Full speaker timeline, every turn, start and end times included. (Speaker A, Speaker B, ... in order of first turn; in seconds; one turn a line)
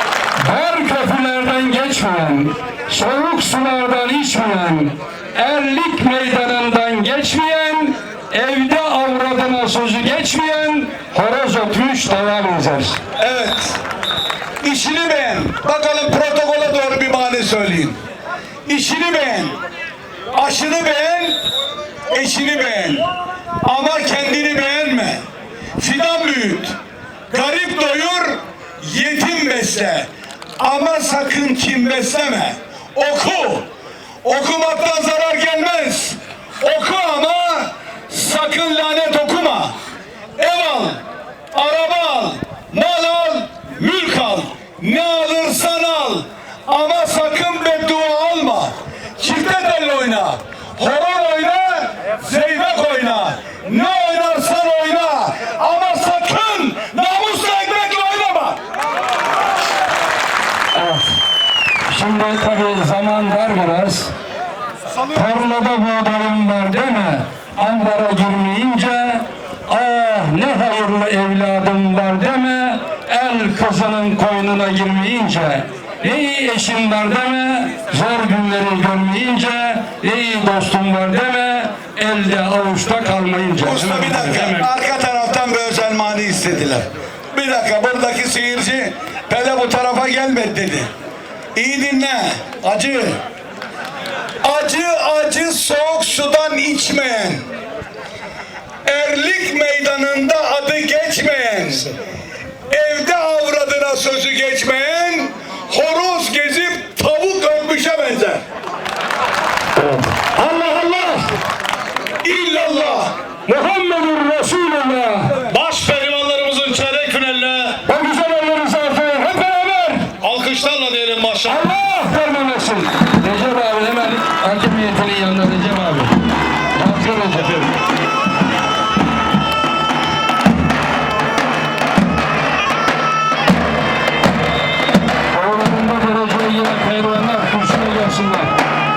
Speaker A: 0.4-13.0
Speaker B: 13.2-13.8
Speaker B: 14.6-17.9
Speaker B: 18.6-19.6
Speaker B: 20.3-21.4
Speaker B: 22.1-23.1
Speaker B: 23.6-25.2
Speaker B: 25.8-26.8
Speaker B: 27.3-30.1
Speaker B: 30.6-33.6
Speaker B: 34.2-39.7
Speaker B: 40.4-41.0
Speaker B: 41.5-58.6
Speaker A: 60.7-61.2
Speaker A: 61.9-64.1
Speaker A: 65.1-84.7
Speaker B: 83.6-90.9
Speaker B: 91.5-93.2
Speaker B: 94.4-97.5
Speaker B: 98.8-101.9
Speaker B: 102.7-108.4
Speaker A: 109.8-111.3
Speaker B: 112.2-113.1
Speaker A: 113.5-115.4
Speaker C: 115.4-117.8
Speaker A: 117.8-120.2
Speaker C: 120.2-121.6
Speaker A: 121.5-126.2
Speaker A: 126.7-127.7
Speaker A: 135.3-138.5